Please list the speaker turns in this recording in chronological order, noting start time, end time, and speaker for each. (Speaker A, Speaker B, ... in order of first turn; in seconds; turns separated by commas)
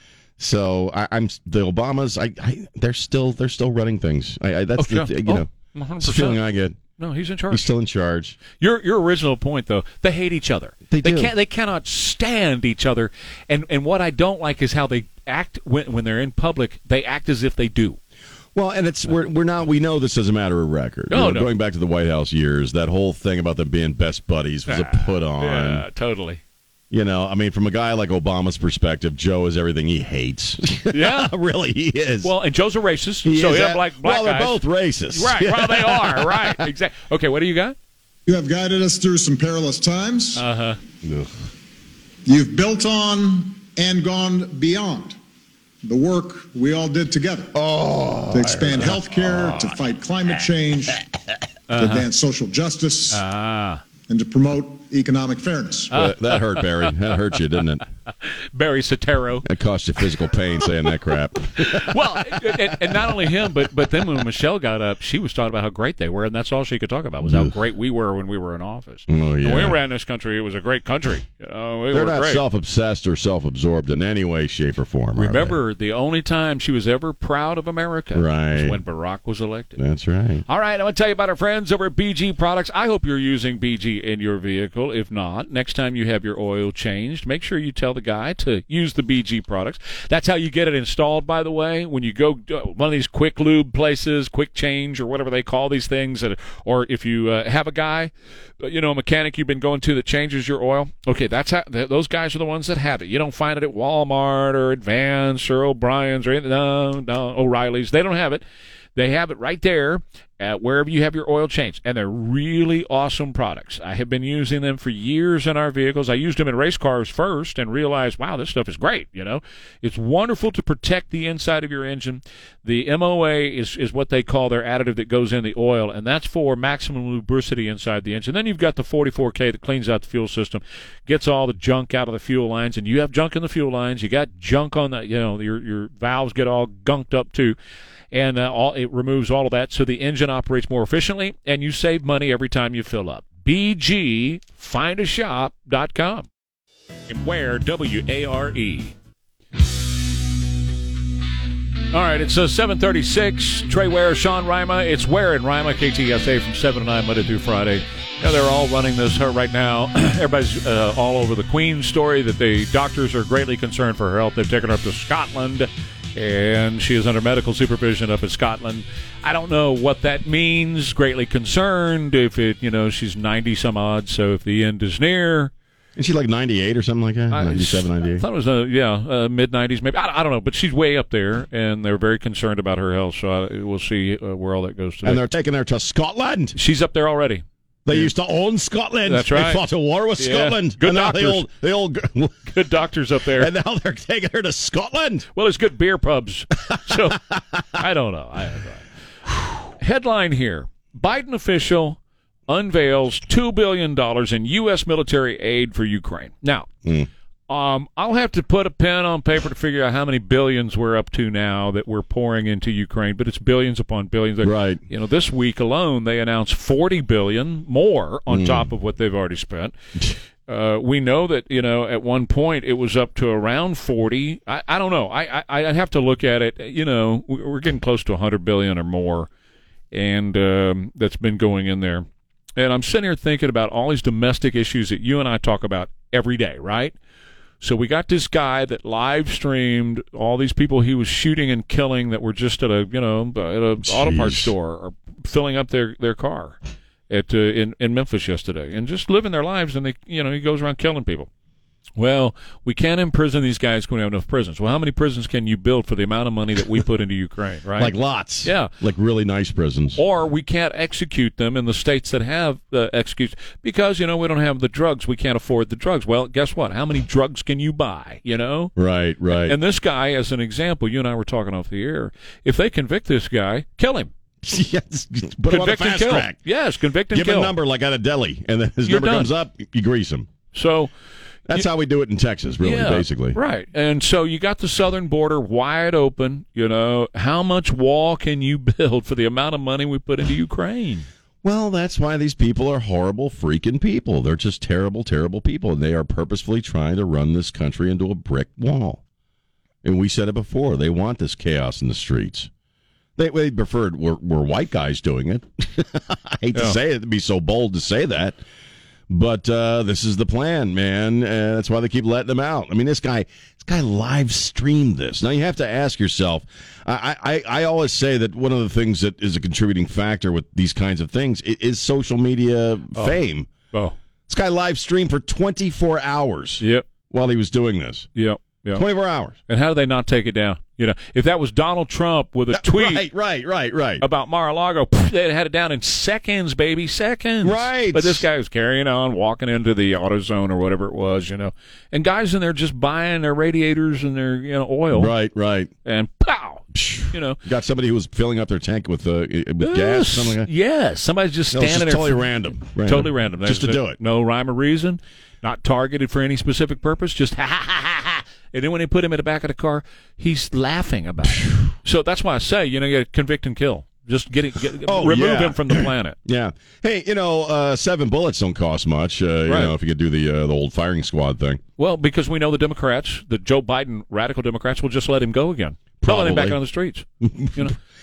Speaker A: 0.4-5.5, Speaker B: 4.8-6.4, Speaker A: 6.0-6.8, Speaker B: 7.0-7.7, Speaker A: 7.5-8.4, Speaker B: 8.6-18.0, Speaker A: 10.9-11.3, Speaker A: 18.5-25.8, Speaker B: 21.1-21.5, Speaker B: 24.7-26.4, Speaker A: 26.9-32.3, Speaker B: 30.9-31.3, Speaker B: 32.2-37.8, Speaker A: 33.2-36.7, Speaker C: 38.2-40.4, Speaker B: 40.4-40.8, Speaker A: 41.0-41.3, Speaker C: 42.2-45.2, Speaker C: 45.8-47.5, Speaker A: 47.5-49.7, Speaker C: 48.3-51.0, Speaker B: 51.7-52.0, Speaker C: 51.7-53.2, Speaker B: 53.1-53.8, Speaker C: 54.1-55.9, Speaker B: 55.9-56.9, Speaker A: 55.9-57.8, Speaker B: 58.5-59.5, Speaker A: 59.4-63.3, Speaker B: 61.5-72.4, Speaker A: 67.2-67.5, Speaker A: 69.1-69.8, Speaker A: 71.9-75.6, Speaker B: 75.1-79.8, Speaker A: 78.1-78.8, Speaker A: 79.8-80.4, Speaker B: 80.5-108.4, Speaker B: 109.0-137.6, Speaker B: 138.1-146.3, Speaker B: 147.1-148.9, Speaker B: 151.9-175.5, Speaker A: 175.9-178.2, Speaker B: 177.3-185.2, Speaker A: 185.0-186.6, Speaker B: 186.5-188.1, Speaker A: 187.8-192.5, Speaker B: 189.1-189.6, Speaker B: 190.2-191.4, Speaker B: 192.5-193.5, Speaker A: 193.3-195.2, Speaker B: 195.3-197.2, Speaker A: 196.7-197.8, Speaker B: 197.7-198.8, Speaker B: 199.8-206.7, Speaker B: 207.5-219.7, Speaker A: 214.4-214.8, Speaker A: 218.3-218.7, Speaker B: 220.4-229.3, Speaker B: 229.9-236.9, Speaker B: 237.6-246.6, Speaker A: 243.8-244.5, Speaker B: 247.1-251.3, Speaker B: 252.0-258.7, Speaker A: 257.8-260.0, Speaker B: 260.0-268.7, Speaker A: 268.8-269.6, Speaker B: 269.3-274.1, Speaker A: 274.4-276.4, Speaker B: 275.5-277.5, Speaker A: 277.1-280.3, Speaker B: 278.8-279.3, Speaker B: 280.5-280.9, Speaker A: 281.5-283.4, Speaker B: 282.6-291.1, Speaker A: 291.4-299.0, Speaker A: 299.8-302.5, Speaker A: 303.2-308.4, Speaker A: 309.1-323.5, Speaker A: 324.3-328.1, Speaker B: 326.6-326.9, Speaker B: 328.1-328.8, Speaker A: 328.7-329.4, Speaker B: 329.5-333.1, Speaker A: 332.5-334.0, Speaker B: 334.0-345.1, Speaker A: 337.4-338.2, Speaker A: 344.9-345.7, Speaker B: 345.8-347.4, Speaker A: 346.7-350.5, Speaker B: 349.6-352.2, Speaker A: 351.5-354.0, Speaker B: 352.8-366.2, Speaker A: 364.8-371.6, Speaker B: 369.4-369.7, Speaker B: 371.8-377.7, Speaker A: 376.0-376.6, Speaker A: 377.2-377.7